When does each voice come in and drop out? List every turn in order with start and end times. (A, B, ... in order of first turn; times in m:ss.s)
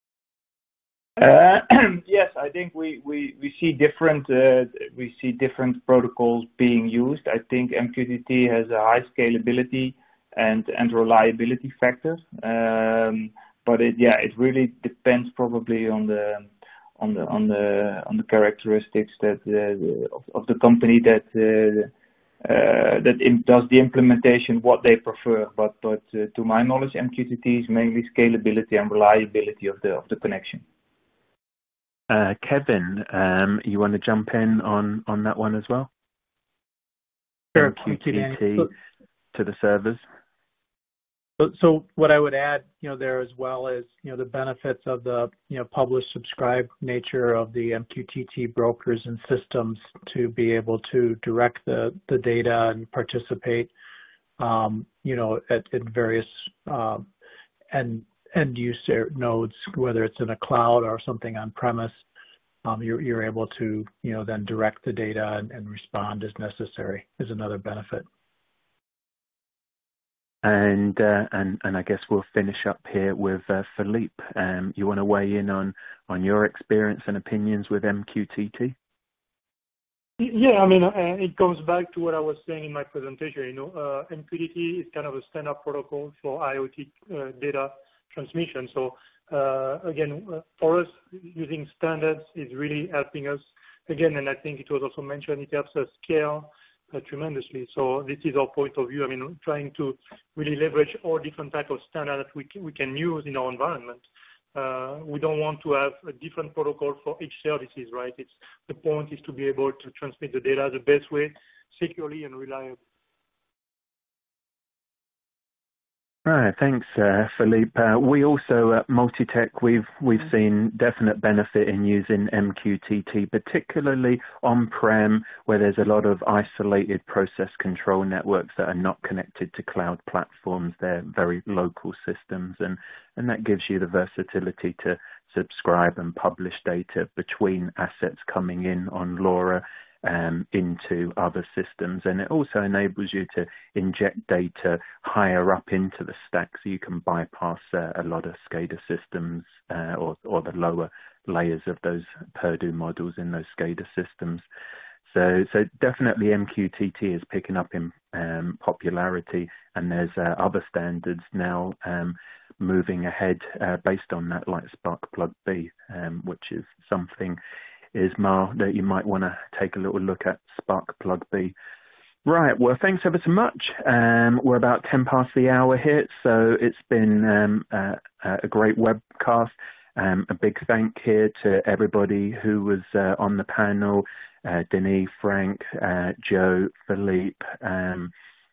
0:01.2-0:21.9 A
0:22.4-0:30.6 A
0:32.1-0:35.9 B
0:37.5-0:38.7 C
0:37.5-0:38.7 B
0:39.3-0:40.0 B
0:41.4-0:53.7 C
0:54.4-0:57.0 C
0:57.7-1:02.0 C
1:02.6-1:08.0 C
1:10.4-1:18.7 B
1:20.2-1:52.8 D
1:56.2-2:34.4 B
2:35.1-2:47.4 B
2:47.9-2:51.5 B
2:52.2-3:08.1 B